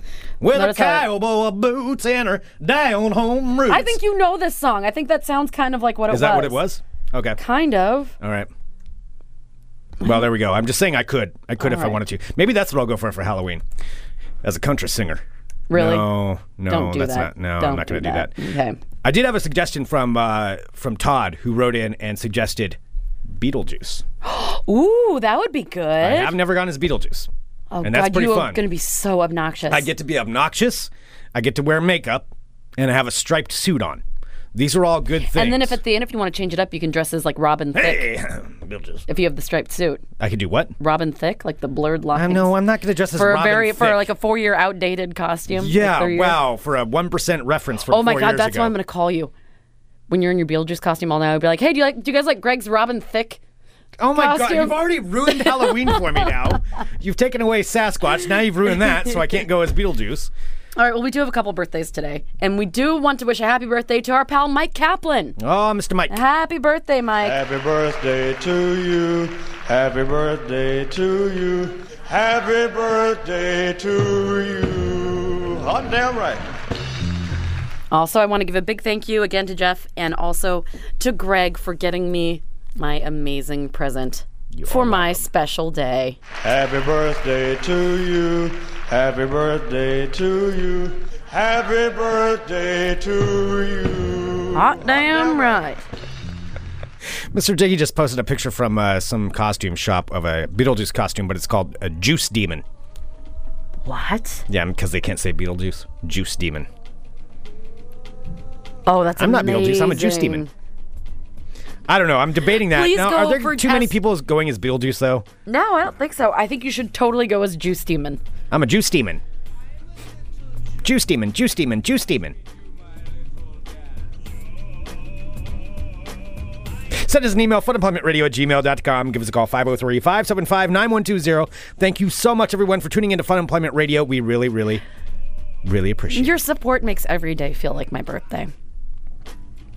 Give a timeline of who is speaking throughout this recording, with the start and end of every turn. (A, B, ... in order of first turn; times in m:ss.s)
0:00.4-0:04.0 A
0:00.5-0:01.1 B
0:03.7-0:06.6 B
0:06.1-0:07.4 A
0:07.4-0:08.1 B
0:08.2-0:08.5 A
0:10.0-0:13.6 A
0:11.6-0:12.0 B
0:14.4-0:18.3 A
0:15.7-0:16.1 B
0:16.7-0:18.8 B
0:19.0-0:22.8 A
0:23.3-0:24.0 A
0:24.2-0:26.4 B
0:26.0-0:27.3 A
0:27.7-0:29.9 B
0:27.8-0:28.6 A
0:29.7-0:34.0 A
0:34.5-0:35.8 A
0:35.2-0:38.1 B
0:37.7-0:39.0 A
0:39.1-0:40.0 B
0:40.2-0:40.7 A
0:40.8-0:42.5 B
0:42.1-0:44.1 A
0:43.1-0:46.4 B
0:45.5-0:48.7 A
0:47.9-0:49.3 B
0:50.1-0:53.4 B
0:54.0-1:00.3 A
0:54.1-0:56.3 B
1:00.8-1:05.4 B
1:05.4-1:06.1 A
1:06.1-1:07.4 B
1:07.2-1:16.4 C
1:17.9-1:26.2 B
1:24.5-1:25.3 A
1:26.4-1:35.7 C
1:34.5-1:35.8 B
1:37.3-1:42.6 A
1:43.8-1:44.4 B
1:44.5-1:46.7 A
1:48.8-1:50.5 B
1:49.2-1:50.5 A
1:51.9-1:55.2 A
1:52.6-1:54.0 B
1:55.4-1:58.2 B
1:58.5-1:59.2 A
2:00.8-2:02.4 A
2:06.9-2:14.8 A
2:15.6-2:16.3 A
2:16.1-2:18.5 B